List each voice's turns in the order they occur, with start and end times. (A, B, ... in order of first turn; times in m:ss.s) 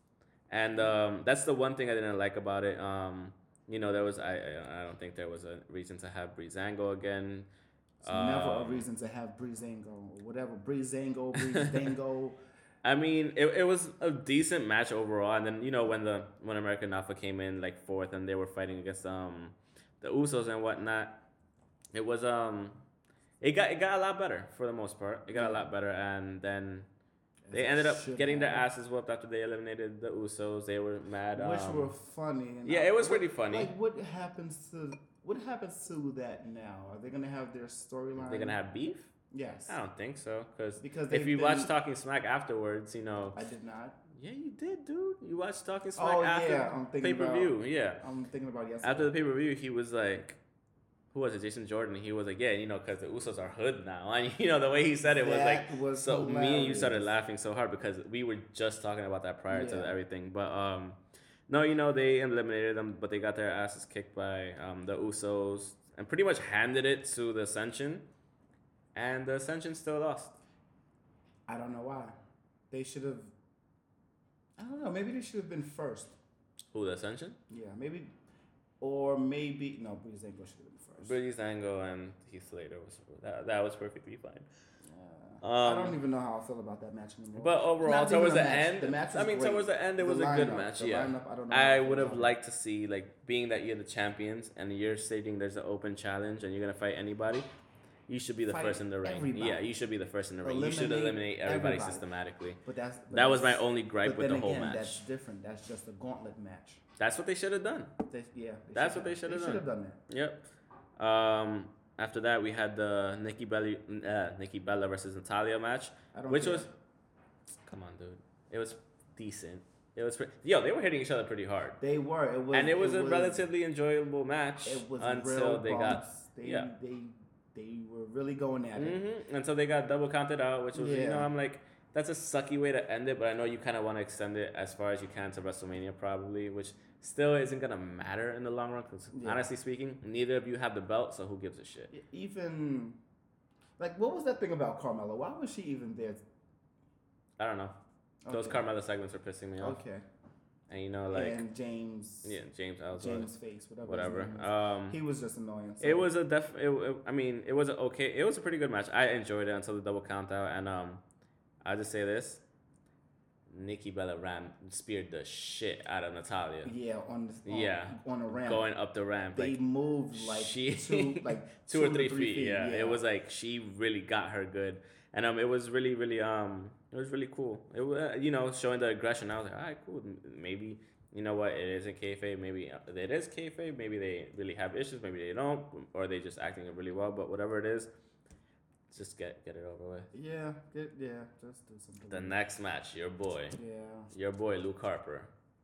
0:00.5-0:07.5 A
0:08.0-0:12.4 B
0:08.0-0:08.9 A
0:11.4-0:11.9 A
0:12.8-0:21.2 A
0:21.9-0:22.8 A
0:23.4-0:26.9 A
0:25.3-0:25.7 B
0:27.5-0:28.7 B
0:27.5-0:31.9 A
0:31.3-0:38.6 B
0:32.6-0:33.7 A
0:38.2-0:39.1 A
0:39.3-0:39.8 B
0:39.7-0:43.4 A
0:40.8-0:41.7 B
0:43.3-0:44.0 B
0:44.1-0:48.0 A
0:46.0-0:49.1 B
0:48.8-0:50.4 A
0:51.1-1:08.1 A
0:55.1-0:57.1 B
0:59.5-1:00.0 B
1:09.0-1:10.4 A
1:11.5-1:12.1 B
1:12.7-1:13.3 B
1:14.6-1:16.2 B
1:16.7-1:17.4 A
1:17.5-1:18.2 B
1:18.8-1:21.2 B
1:21.0-1:24.5 A
1:24.8-1:32.4 B
1:25.4-1:26.0 A
1:27.4-1:37.5 A
1:38.1-1:45.0 A
1:38.5-1:39.6 B
1:40.4-1:42.1 B
1:42.6-1:46.8 B
1:47.0-1:47.9 A
1:48.1-1:50.0 B
1:48.7-1:50.4 A
1:51.0-1:56.7 A
1:56.1-1:56.7 B
1:57.7-2:01.8 A
2:01.8-2:03.5 B
2:02.5-2:06.7 A
2:04.6-2:09.0 B
2:08.8-2:21.9 A
2:10.7-2:11.3 B
2:19.1-2:19.4 B
2:21.9-2:23.0 B
2:23.8-2:26.2 B
2:27.4-2:27.8 A
2:28.2-2:28.6 B
2:28.3-2:29.8 A
2:29.6-2:30.1 B
2:30.7-2:31.4 A
2:31.1-2:32.4 B
2:32.2-2:33.3 A
2:33.0-2:36.1 B
2:33.8-2:35.0 A
2:35.8-2:41.0 A
2:41.6-2:42.4 A
2:43.5-2:46.7 A
2:46.6-2:48.6 B
2:47.5-2:49.6 A
2:49.4-2:53.0 B
2:50.1-3:07.9 A
3:08.9-3:10.1 A
3:10.1-3:12.4 B
3:12.1-3:13.6 A
3:13.6-3:14.1 B
3:14.1-3:15.3 A